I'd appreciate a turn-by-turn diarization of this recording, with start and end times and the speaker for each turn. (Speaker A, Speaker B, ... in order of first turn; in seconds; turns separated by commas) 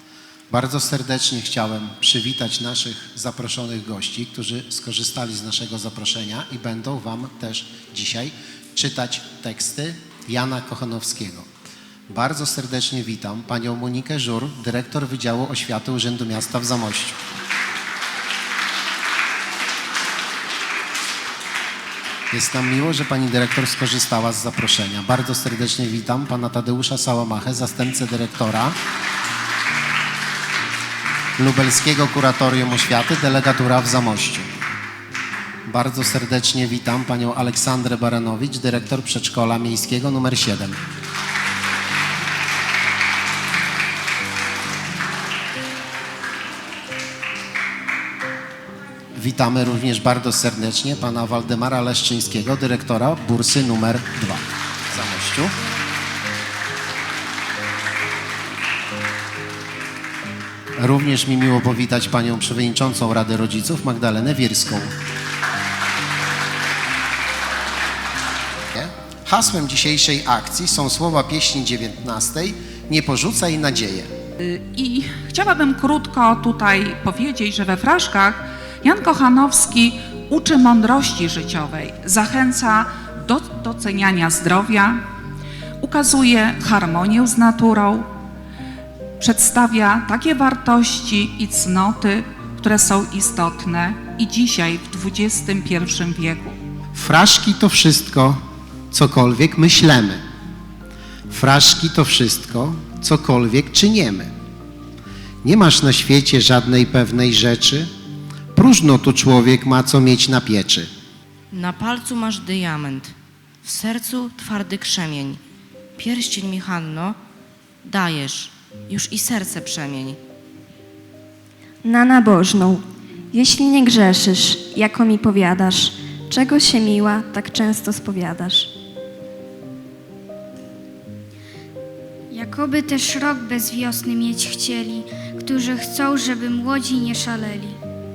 Speaker A: 0.5-11.5, Speaker A: 12.1-17.2, Speaker A: 22.3-28.8, Speaker A: 31.4-34.5, Speaker A: 35.7-40.8, Speaker A: 49.1-55.5, Speaker A: 60.8-64.9, Speaker A: 68.7-74.1, Speaker B: 74.4-85.0, Speaker B: 85.8-88.1, Speaker B: 89.2-96.6, Speaker A: 96.9-98.4, Speaker A: 98.9-100.2, Speaker A: 101.3-104.3, Speaker A: 105.4-107.9, Speaker A: 108.5-110.9, Speaker C: 111.5-113.0, Speaker C: 113.8-115.3, Speaker C: 116.0-117.1, Speaker C: 117.9-118.4, Speaker C: 118.9-120.1, Speaker D: 121.8-128.7, Speaker E: 132.3-137.8